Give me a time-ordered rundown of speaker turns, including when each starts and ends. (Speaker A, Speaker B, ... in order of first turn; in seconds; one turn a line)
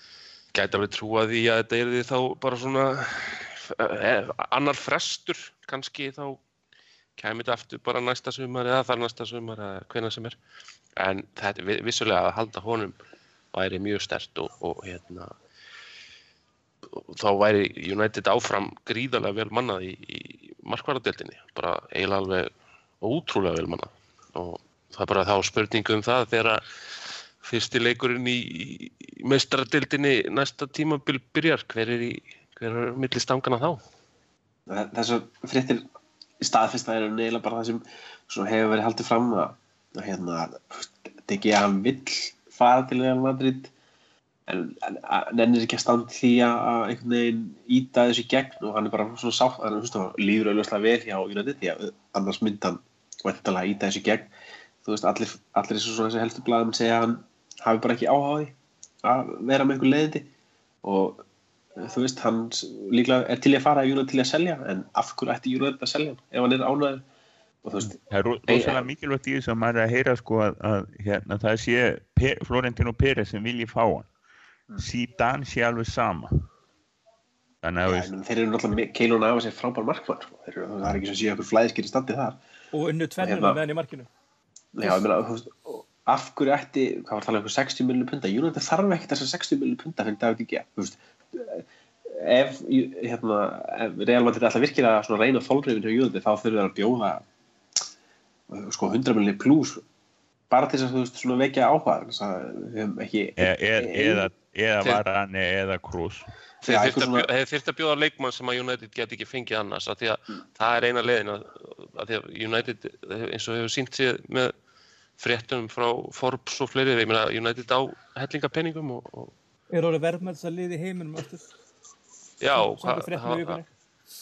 Speaker A: 0.5-6.4
Speaker A: 7.2-10.4
Speaker A: 11.0-13.0
Speaker A: 13.5-15.3
Speaker A: 16.9-22.5
Speaker A: 23.0-26.6
Speaker A: 27.4-33.8
Speaker B: 34.7-35.8
Speaker B: 36.4-43.7
Speaker B: 44.5-54.3
Speaker B: 54.8-60.3
Speaker B: 60.8-61.2
Speaker B: 61.8-67.0
Speaker B: 67.6-68.0
Speaker C: 67.8-74.1
Speaker B: 68.5-68.9
Speaker C: 74.8-76.5
Speaker C: 77.6-78.1
Speaker B: 77.9-82.4
Speaker D: 82.7-84.1
Speaker B: 83.2-83.6
Speaker B: 84.8-97.2
Speaker B: 98.5-99.8
Speaker B: 100.5-104.3
Speaker C: 103.4-106.3
Speaker A: 106.6-114.5
Speaker B: 106.7-107.3
Speaker A: 115.2-119.3
Speaker D: 119.7-121.4
Speaker A: 122.4-123.6
Speaker D: 122.5-123.7